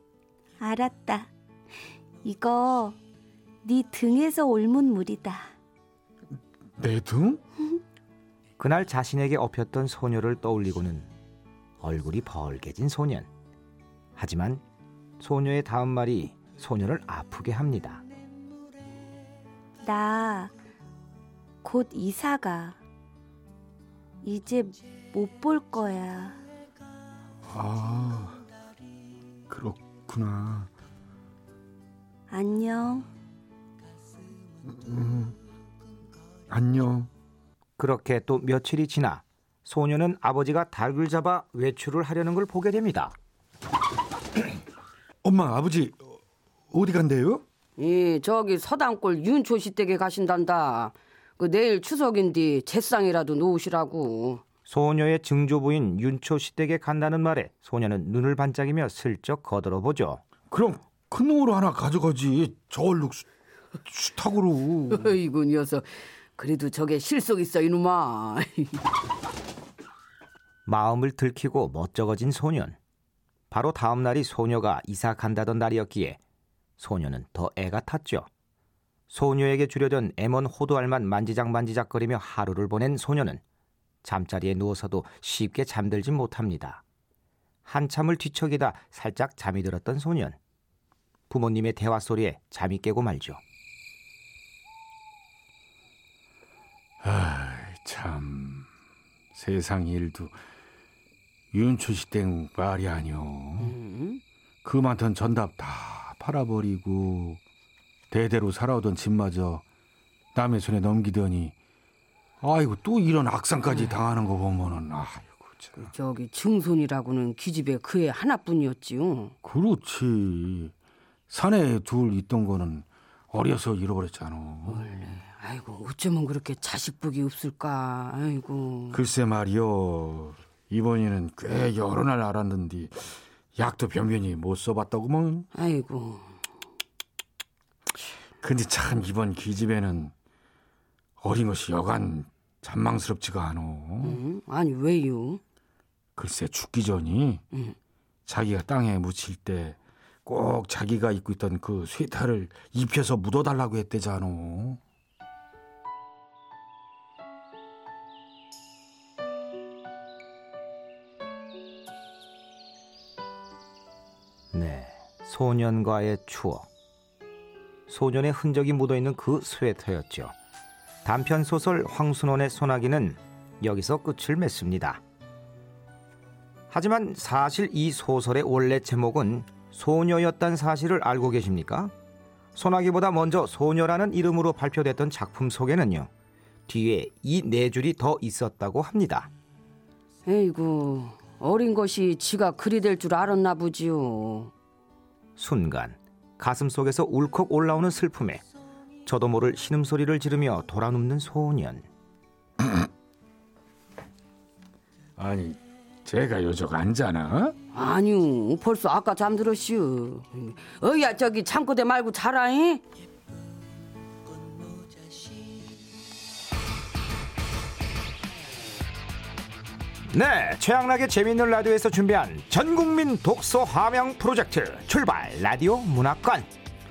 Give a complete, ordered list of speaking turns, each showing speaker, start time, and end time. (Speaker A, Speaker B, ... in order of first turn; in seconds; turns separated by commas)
Speaker A: 0.6-1.3, Speaker A: 2.2-3.0, Speaker A: 3.6-5.5, Speaker B: 6.8-7.4, Speaker C: 8.6-11.1, Speaker C: 11.8-13.3, Speaker C: 14.2-14.6, Speaker C: 15.2-18.0, Speaker A: 19.8-20.5, Speaker A: 21.6-22.8, Speaker A: 24.2-26.4, Speaker B: 27.5-28.4, Speaker B: 29.5-30.7, Speaker A: 32.3-33.1, Speaker B: 34.6-35.4, Speaker B: 36.5-37.1, Speaker C: 37.8-43.1, Speaker B: 45.2-46.2, Speaker B: 46.7-47.4, Speaker D: 47.8-54.4, Speaker C: 54.7-60.2, Speaker B: 60.5-63.2, Speaker B: 63.8-65.2, Speaker D: 64.9-68.8, Speaker C: 70.7-72.8, Speaker C: 73.5-76.2, Speaker C: 76.8-78.3, Speaker C: 79.1-83.4, Speaker C: 84.0-86.8, Speaker C: 87.6-90.4, Speaker C: 91.3-93.4, Speaker B: 97.0-98.7, Speaker B: 99.3-100.4, Speaker B: 101.5-103.8, Speaker D: 103.6-104.2, Speaker B: 104.6-107.4, Speaker B: 108.1-109.6, Speaker B: 110.3-111.5, Speaker B: 112.4-115.8, Speaker D: 115.8-119.3, Speaker B: 119.4-120.7, Speaker B: 121.3-125.0, Speaker D: 124.7-129.0, Speaker B: 128.9-135.5, Speaker D: 135.5-136.3, Speaker B: 138.4-140.1, Speaker B: 141.2-144.2, Speaker D: 144.0-145.4, Speaker B: 146.2-147.4, Speaker B: 148.2-154.8, Speaker C: 164.5-166.7, Speaker C: 167.9-170.3, Speaker C: 171.0-175.0, Speaker C: 176.7-181.9, Speaker C: 182.5-186.1, Speaker C: 186.7-189.3, Speaker D: 190.2-194.5, Speaker C: 195.3-198.4, Speaker C: 199.0-201.9, Speaker B: 205.2-207.6, Speaker D: 207.7-212.8, Speaker C: 220.1-226.5